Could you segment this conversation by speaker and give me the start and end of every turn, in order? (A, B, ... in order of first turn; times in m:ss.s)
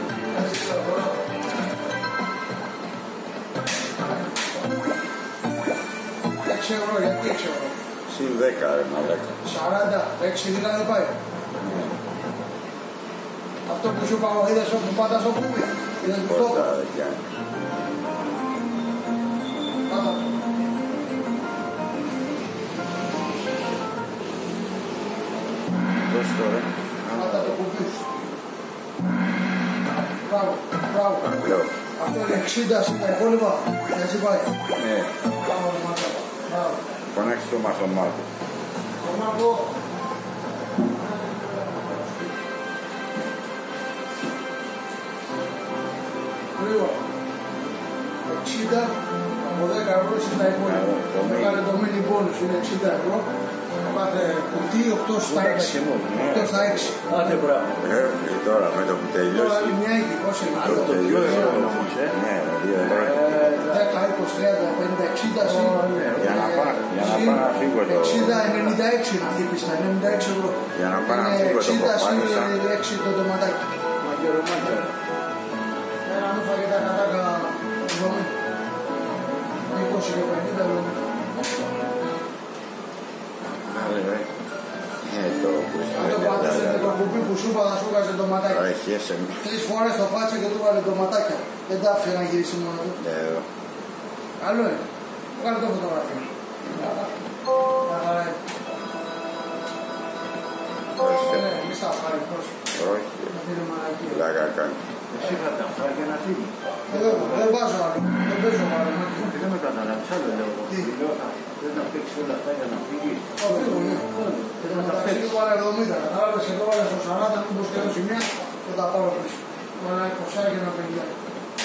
0:00.3-0:01.2 A
0:06.4-0:07.8 A
0:08.1-0:09.4 B
0:09.4-0:11.2 A
0:11.6-0:11.9 B
0:13.7-0:16.7 A
0:16.2-0:17.2 B
0:19.9-0:20.2 A
0:26.0-0:27.6 B
0:27.1-0:28.1 A
0:30.2-0:31.3 A
0:31.2-0:31.7 B
0:32.0-0:34.6 A
0:34.7-0:35.1 B
0:35.3-0:36.8 A
0:37.1-0:38.3 B
0:39.0-0:39.7 A
0:40.9-0:42.3 A
0:46.6-0:47.0 A
0:48.3-0:57.0 A
0:50.6-0:51.7 B
0:55.2-0:56.4 C
0:56.0-0:59.8 B
0:57.0-0:57.8 C
0:59.3-1:01.6 A
1:00.5-1:02.2 C
1:00.6-1:03.5 B
1:02.8-1:03.9 C
1:03.6-1:13.6 A
1:05.4-1:06.4 C
1:06.2-1:08.6 B
1:10.7-1:12.6 B
1:14.0-1:14.9 C
1:16.0-1:18.3 A
1:19.7-1:21.1 A
1:23.6-1:24.3 B
1:25.0-1:27.1 B
1:25.9-1:28.7 A
1:28.5-1:29.4 B
1:29.4-1:33.0 A
1:33.0-1:33.5 B
1:34.4-1:34.8 A
1:35.4-1:36.3 A
1:37.8-1:38.4 A
1:41.0-1:41.5 B
1:41.0-1:42.7 A
1:42.7-1:43.3 B
1:43.3-1:44.2 A
1:44.0-1:44.9 B
1:45.1-1:47.6 C
1:46.9-1:49.4 A
1:49.2-1:55.4 C
1:53.4-1:54.1 A
1:54.6-2:01.1 A